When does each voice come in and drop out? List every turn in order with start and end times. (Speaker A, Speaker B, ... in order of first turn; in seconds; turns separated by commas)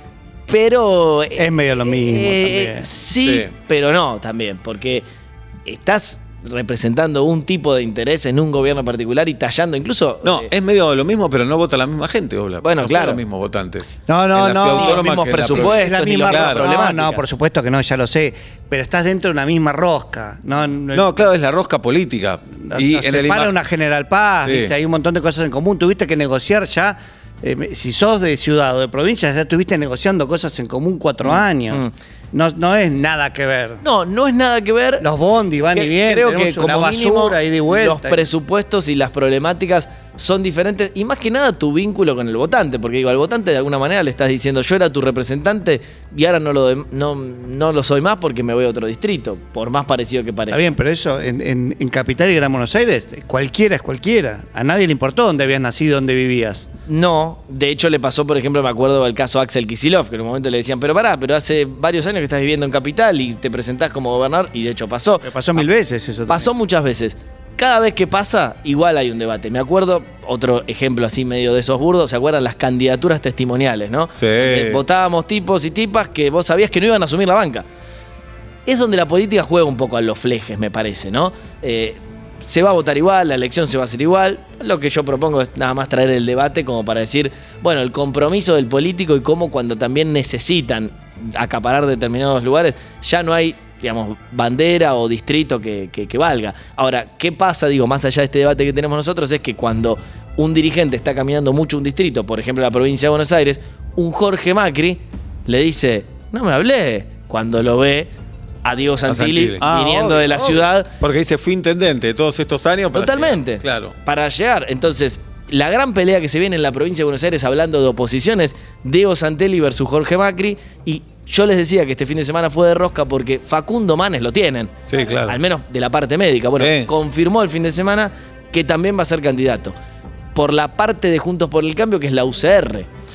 Speaker A: 0.5-5.1, Speaker B: 1.4-2.9, Speaker C: 3.2-3.5, Speaker A: 5.7-10.5, Speaker C: 10.2-16.7, Speaker A: 12.6-13.2, Speaker B: 14.1-21.2, Speaker A: 14.7-17.3, Speaker C: 20.9-23.5, Speaker B: 22.6-33.8, Speaker C: 24.4-24.7, Speaker A: 33.8-35.1, Speaker B: 35.0-38.3, Speaker A: 35.7-50.6, Speaker B: 50.5-56.7, Speaker A: 56.9-65.3, Speaker B: 65.2-66.5, Speaker A: 66.3-77.7, Speaker C: 74.2-74.8, Speaker A: 78.7-108.1, Speaker A: 108.6-110.9, Speaker C: 109.1-109.6, Speaker B: 109.6-110.7, Speaker C: 111.0-114.0, Speaker A: 112.9-129.8, Speaker C: 124.9-125.4, Speaker C: 126.6-126.9, Speaker A: 130.3-132.9